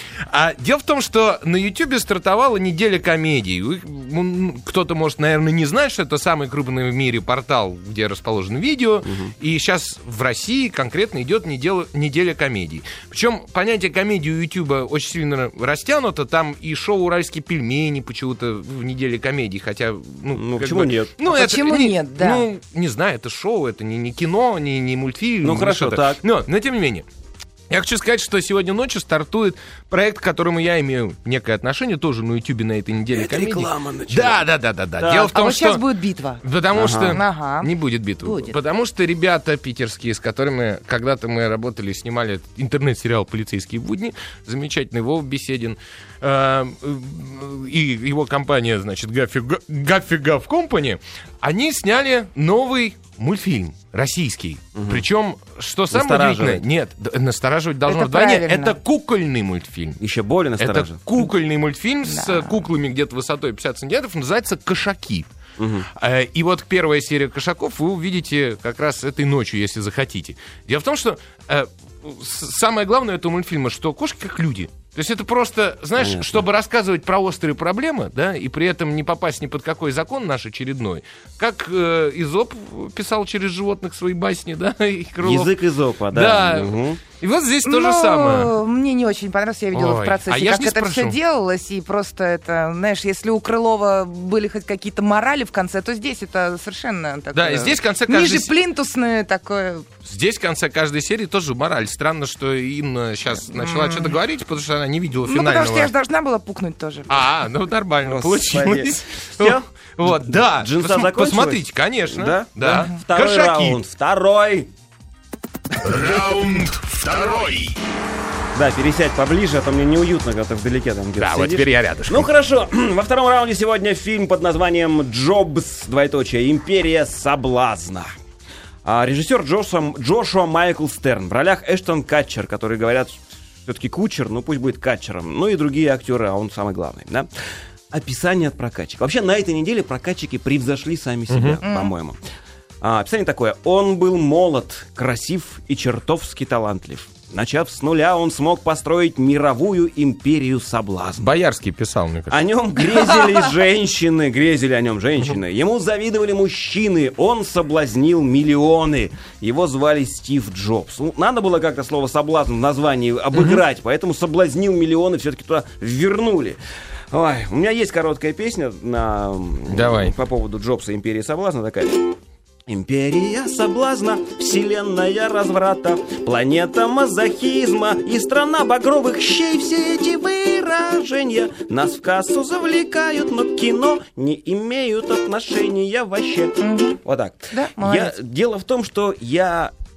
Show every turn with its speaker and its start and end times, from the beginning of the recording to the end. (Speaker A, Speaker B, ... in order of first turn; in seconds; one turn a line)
Speaker A: 0.3-27.1
Speaker B: 9.0-9.3
Speaker B: 20.3-21.1
Speaker C: 21.3-22.5
Speaker B: 25.4-26.2
Speaker A: 27.7-35.8
Speaker B: 33.1-34.4
Speaker B: 35.0-35.3
Speaker C: 35.3-36.4
Speaker A: 36.4-60.0
Speaker B: 36.8-37.2
Speaker C: 37.1-38.5
Speaker B: 54.8-55.0
Speaker B: 55.9-56.7
Speaker C: 57.9-58.8
Speaker B: 60.0-61.1
Speaker A: 60.6-65.3
Speaker C: 62.0-62.6
Speaker B: 65.6-65.9
Speaker A: 65.9-85.5
Speaker B: 76.0-76.4
Speaker B: 85.2-87.0
Speaker A: 86.1-88.5
Speaker C: 87.6-99.9
Speaker A: 89.7-91.2
Speaker A: 97.3-98.5
Speaker A: 100.0-105.9
Speaker C: 103.4-104.2
Speaker C: 105.2-107.3
Speaker A: 107.1-113.8
Speaker B: 108.1-114.7
Speaker A: 115.8-117.8
Speaker B: 118.5-128.1
Speaker A: 121.2-122.3
Speaker B: 128.8-137.3
Speaker B: 137.9-142.2
Speaker A: 141.3-141.6
Speaker C: 141.6-141.9
Speaker B: 142.8-151.3
Speaker A: 151.2-152.4
Speaker B: 152.3-166.6
Speaker A: 163.3-163.6
Speaker B: 167.1-172.1
Speaker A: 169.7-170.1
Speaker B: 172.7-189.7
Speaker C: 186.6-187.0
Speaker C: 187.5-188.1